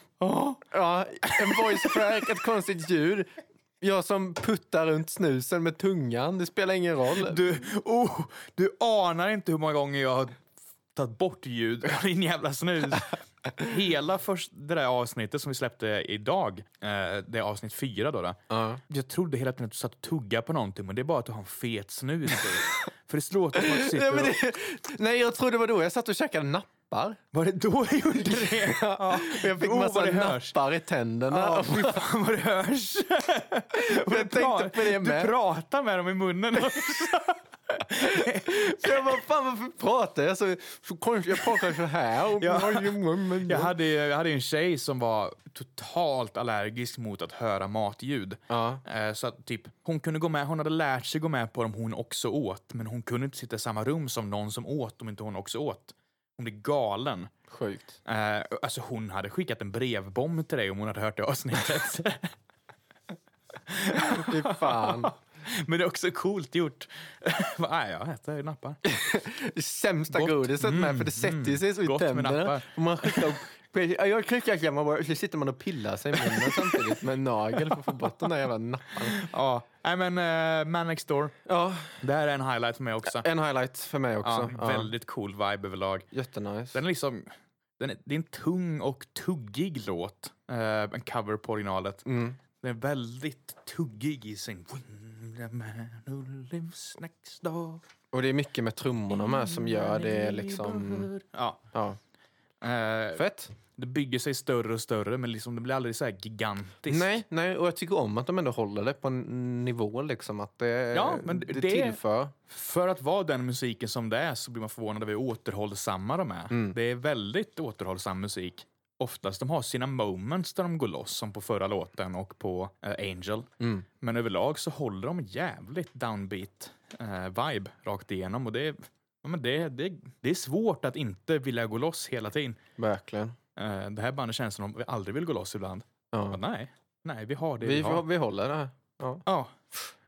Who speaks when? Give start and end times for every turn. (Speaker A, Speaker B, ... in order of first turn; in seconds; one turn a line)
Speaker A: 0.2-0.5
Speaker B: 0.5-7.4
Speaker A: 1.3-2.1
Speaker A: 7.1-24.4
Speaker B: 18.5-18.8
Speaker B: 23.6-27.2
Speaker A: 27.3-30.6
Speaker B: 28.2-32.0
Speaker A: 31.3-39.1
Speaker B: 33.7-35.3
Speaker B: 38.0-43.7
Speaker A: 42.4-57.3
Speaker B: 48.5-48.8
Speaker B: 57.5-58.0
Speaker A: 58.0-62.3
Speaker A: 63.6-68.8
Speaker B: 64.0-65.1
Speaker B: 68.8-79.2
Speaker A: 70.1-73.3
Speaker A: 76.2-76.8
Speaker A: 79.0-81.4
Speaker B: 81.5-82.0
Speaker A: 82.0-83.2
Speaker B: 83.0-84.9
Speaker A: 84.2-86.1
Speaker B: 86.1-86.8
Speaker A: 86.7-92.0
Speaker B: 92.0-92.4
Speaker A: 92.6-97.8
Speaker B: 98.1-101.1
Speaker A: 99.1-101.6
Speaker B: 101.7-102.0
Speaker A: 102.6-107.2
Speaker B: 103.1-103.5
Speaker B: 106.9-112.3
Speaker A: 110.9-123.5
Speaker B: 116.5-116.8
Speaker B: 123.6-123.8
Speaker A: 124.0-132.6
Speaker B: 132.8-133.3
Speaker A: 133.6-138.0
Speaker B: 136.1-136.4
Speaker B: 137.6-139.2
Speaker A: 139.2-139.6